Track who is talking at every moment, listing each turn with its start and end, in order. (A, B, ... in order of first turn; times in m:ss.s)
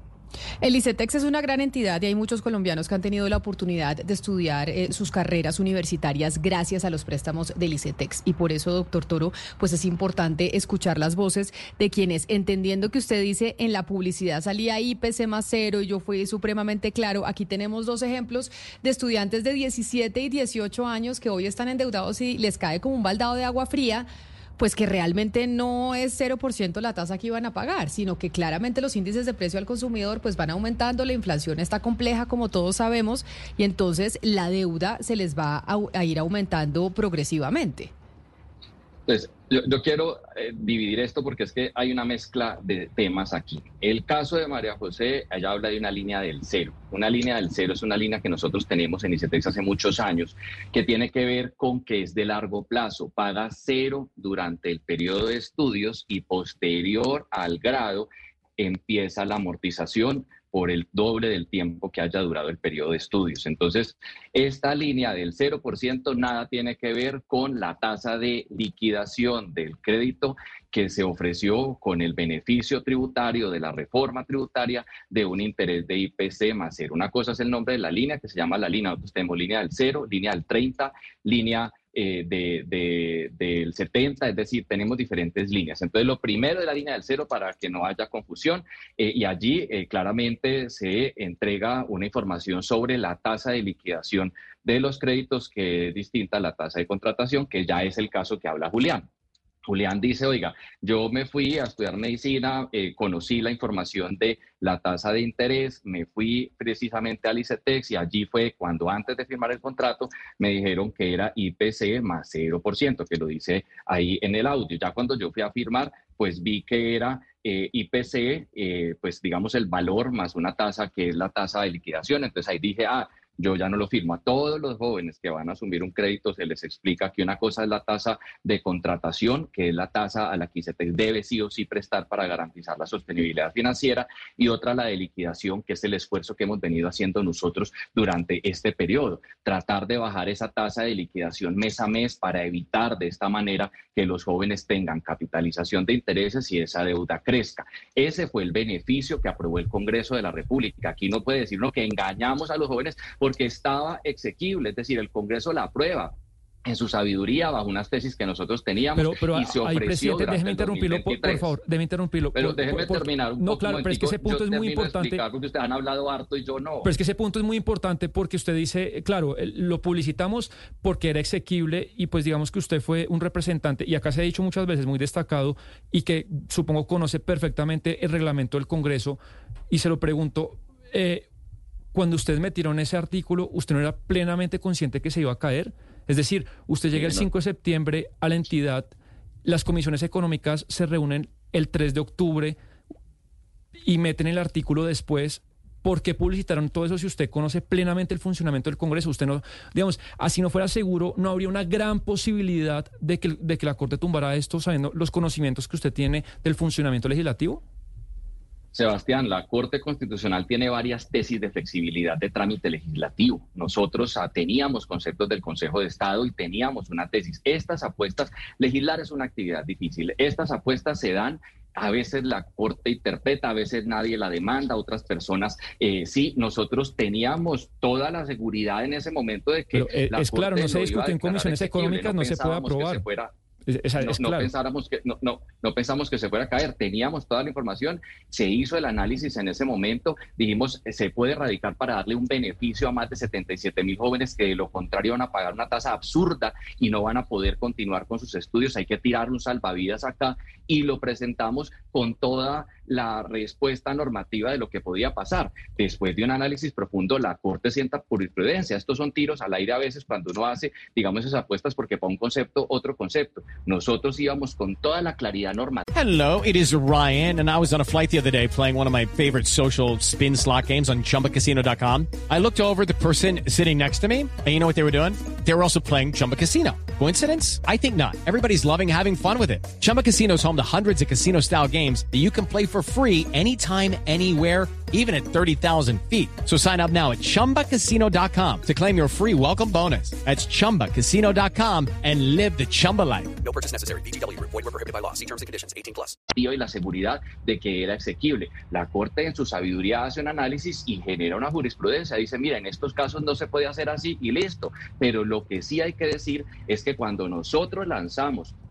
0:00.6-0:24.1 A
0:24.6-0:37.9 A
0:39.1-1:39.1 B
1:39.7-2:36.2 B
2:36.7-2:41.5 B
2:39.0-2:45.2 C
2:42.4-2:46.9 B
2:46.8-2:59.2 C
2:59.7-3:01.3 C
3:01.9-3:08.9 C
3:06.9-3:07.3 B
3:09.4-3:12.6 C
3:13.8-3:27.6 C
3:28.7-3:53.3 B
3:49.7-3:53.0 C
3:53.7-3:54.5 C
3:54.0-4:25.8 B
4:25.9-4:53.4 D
4:53.4-4:56.2 E
4:56.3-5:08.6 B